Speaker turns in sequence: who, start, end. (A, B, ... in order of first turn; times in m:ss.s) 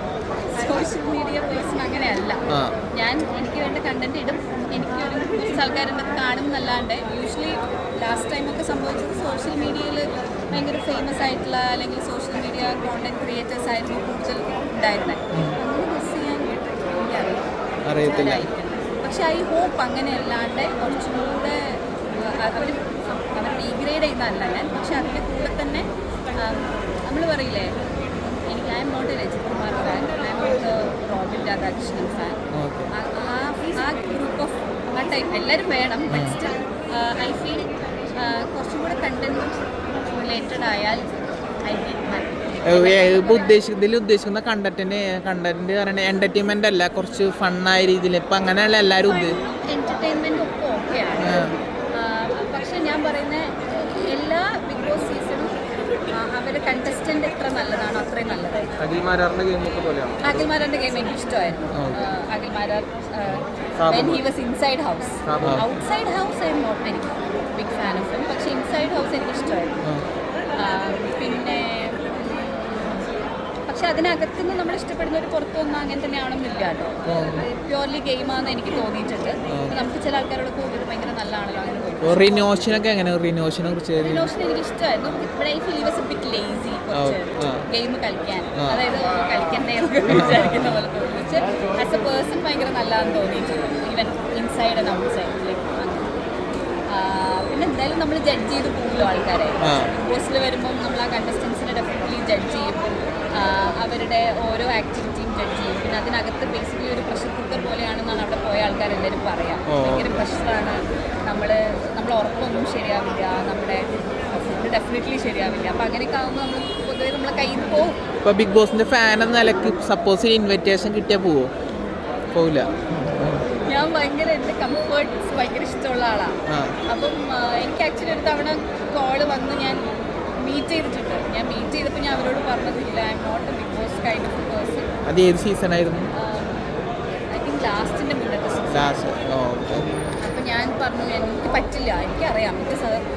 0:00.5-0:02.4 A
0:02.9-0:27.7 A
0:17.9-0:18.5 B
0:28.2-0:32.4 A
0:32.5-0:32.9 B
0:32.9-0:41.0 A
0:36.1-0:36.4 B
0:41.6-0:43.5 A
0:42.7-0:49.4 B
0:49.1-0:55.5 A
0:51.2-0:51.5 B
0:56.1-0:58.7 A
0:58.8-1:00.5 C
1:00.2-1:09.8 A
1:01.7-1:02.0 B
1:03.8-1:04.2 C
1:05.3-1:05.6 C
1:10.6-1:13.1 A
1:13.7-1:22.4 A
1:17.1-1:17.4 B
1:22.0-1:24.3 B
1:24.0-1:36.2 A
1:26.9-1:27.6 B
1:30.1-1:30.5 B
1:36.9-1:58.0 A
1:39.6-1:39.9 B
1:49.7-1:50.1 B
1:58.2-2:01.5 B
2:02.3-2:03.5 B
2:03.6-2:06.4 A
2:06.5-2:06.8 B
2:06.9-2:09.8 A
2:10.4-2:14.9 A
2:15.0-2:16.1 B
2:16.1-2:16.7 A
2:17.3-2:19.0 A
2:18.7-2:20.2 B
2:20.2-2:23.0 A